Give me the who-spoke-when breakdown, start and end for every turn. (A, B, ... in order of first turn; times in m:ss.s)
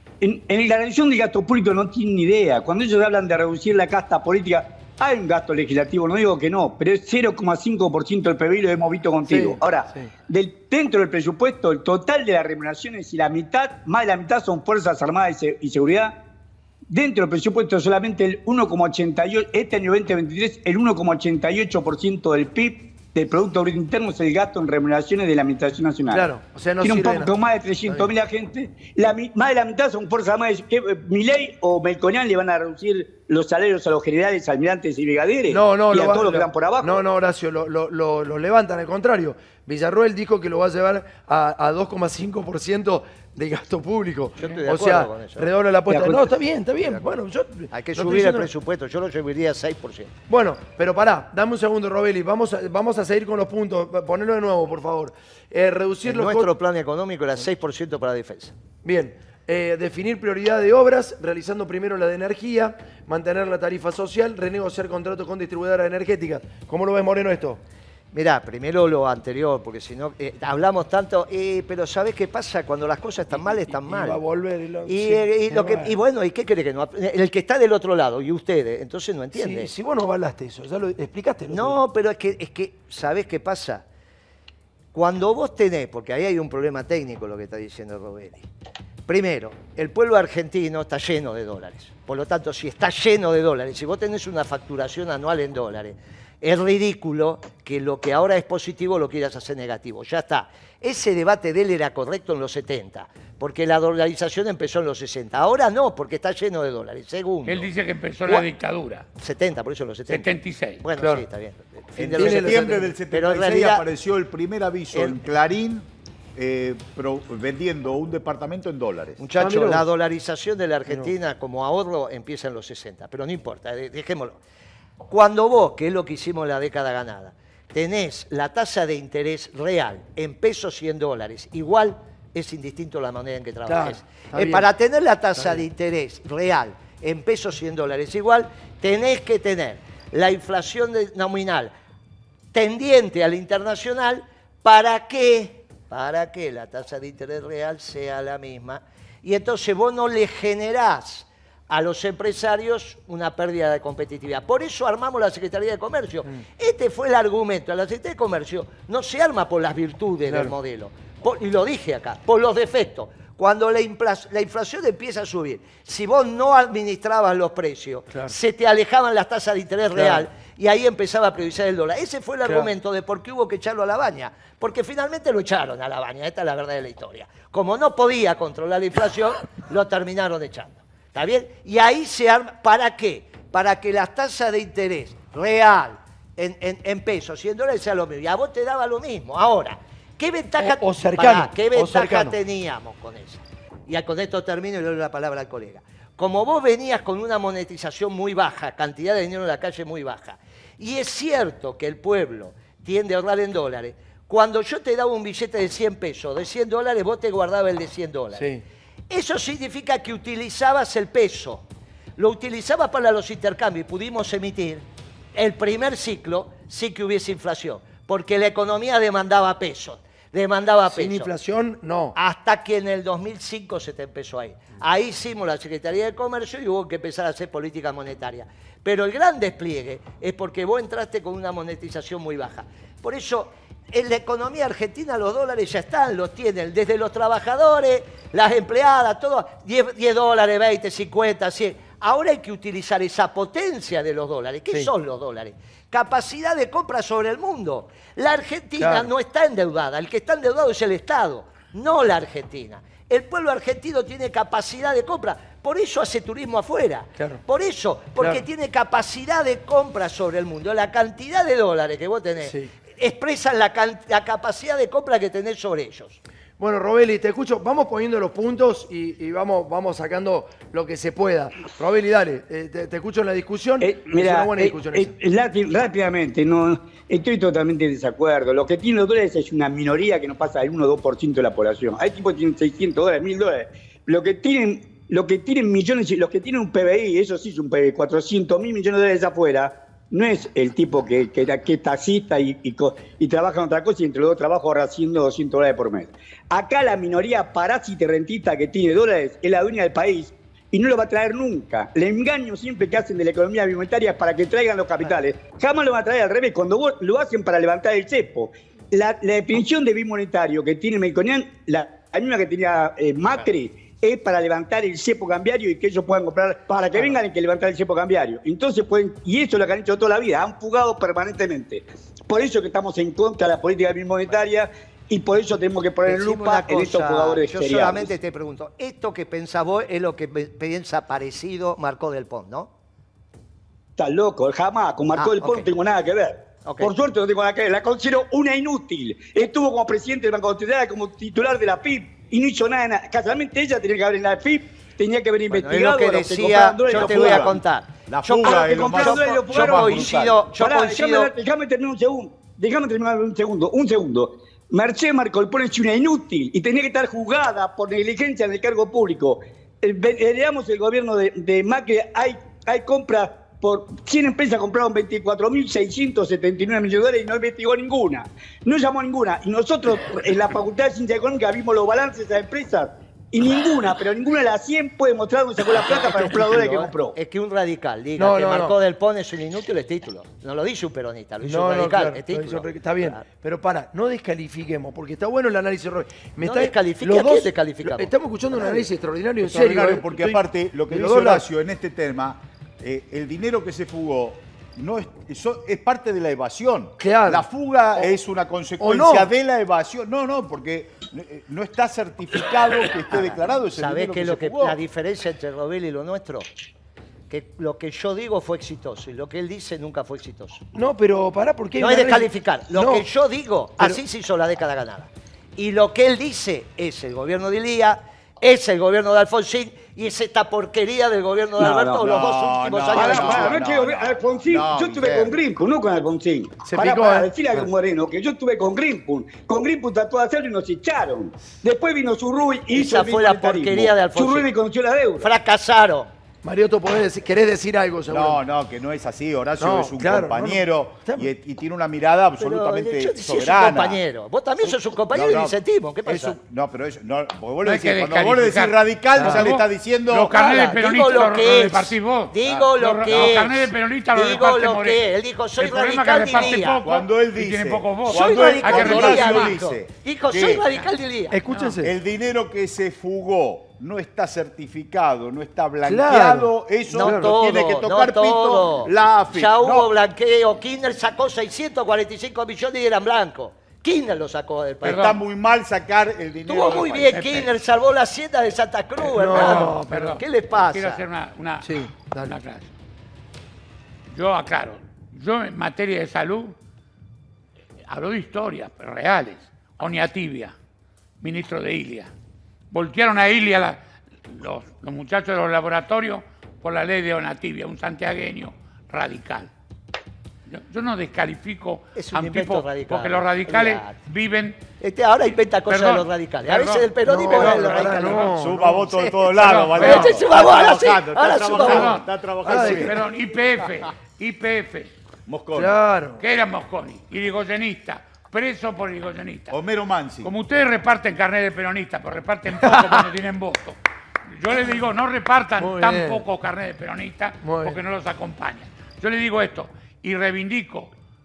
0:00.2-0:16.2 A
0:09.3-0:10.1 B
0:16.9-0:26.3 A
0:26.1-0:27.3 B
0:26.8-0:37.0 A
0:35.5-0:48.5 B
0:44.4-0:45.5 C
0:45.9-0:46.3 A
0:46.8-0:47.2 C
0:47.7-0:50.1 C
0:50.3-0:56.5 B
0:56.0-0:58.5 C
0:58.8-1:07.6 B
1:08.1-1:14.2 C
1:13.7-1:15.9 B
1:14.9-1:19.7 C
1:19.3-1:21.8 B
1:21.5-1:23.8 C
1:24.9-1:28.5 C
1:29.1-1:47.7 C
1:47.5-1:49.1 D
1:49.2-1:50.3 C
1:50.1-1:50.8 D
1:50.8-1:53.8 C
1:51.0-1:51.2 B
1:52.0-1:59.2 E
1:52.1-1:52.9 B
1:54.9-1:55.2 C
1:59.2-2:04.4 C
1:59.4-1:59.8 B
2:05.1-2:21.7 C
2:13.7-2:14.7 B
2:15.4-2:15.6 B
2:22.5-3:28.5 C
2:40.3-2:40.5 B
2:50.0-2:50.2 B
3:10.6-3:12.4 B
3:28.4-3:28.6 B
3:29.1-3:41.3 C
3:40.9-3:42.2 B
3:42.2-4:26.2 C
4:08.8-4:09.1 B
4:17.2-4:17.4 B
4:18.2-4:18.4 B
4:22.4-4:22.7 B
4:26.6-4:35.2 B
4:33.8-5:28.1 A
5:26.0-5:32.7 C
5:34.0-5:47.6 A
5:35.1-5:35.7 C
5:36.6-5:36.9 C
5:45.5-5:51.3 C
5:46.9-5:50.4 E
5:48.4-6:17.2 A
6:15.7-6:23.2 C
6:18.2-6:18.8 B
6:21.4-6:31.4 B
6:26.4-6:28.9 C
6:29.4-6:44.8 E
6:37.0-6:38.1 B
6:38.8-6:39.3 B
6:43.1-6:46.5 C
6:47.3-6:50.7 C
6:50.8-6:53.1 B
6:51.8-7:03.6 C
7:01.6-7:02.1 A
7:02.0-7:05.3 E
7:02.9-7:15.3 A
7:06.6-7:07.7 B
7:12.7-7:14.5 C
7:15.2-7:16.1 C
7:16.4-7:18.4 B
7:18.1-7:24.0 E
7:19.6-7:21.3 B
7:22.4-7:26.4 C
7:25.1-7:30.4 E
7:27.6-7:35.0 D
7:29.2-7:29.5 B
7:30.3-7:36.8 C
7:32.4-7:33.4 E
7:35.6-7:39.6 D
7:36.6-7:40.7 E
7:38.1-7:41.4 C
7:41.3-7:41.9 B
7:41.5-7:41.7 D
7:41.8-7:49.9 E
7:45.8-7:47.3 B
7:46.9-7:55.2 C
7:54.8-7:55.2 D
7:54.8-7:57.2 E
7:56.5-8:01.0 C
7:56.5-7:57.5 D
7:59.2-7:59.8 B
7:59.2-8:02.7 D
8:01.6-8:02.4 B
8:04.1-8:06.6 D
8:07.9-8:10.6 D
8:11.2-8:12.1 D
8:12.7-8:19.5 D
8:20.5-8:24.6 D
8:22.0-8:24.0 C
8:24.8-8:32.0 C
8:25.7-8:28.4 D
8:27.0-8:28.8 B
8:28.3-8:33.0 E
8:29.4-8:30.2 D
8:31.5-8:34.9 D
8:32.4-8:32.9 B
8:35.3-8:35.8 E
8:35.5-8:36.2 B
8:36.2-8:39.6 D
8:39.5-8:40.3 E
8:40.2-8:43.8 D
8:42.6-8:42.9 B
8:44.3-8:50.9 D
8:45.6-8:46.2 B
8:47.4-8:47.8 B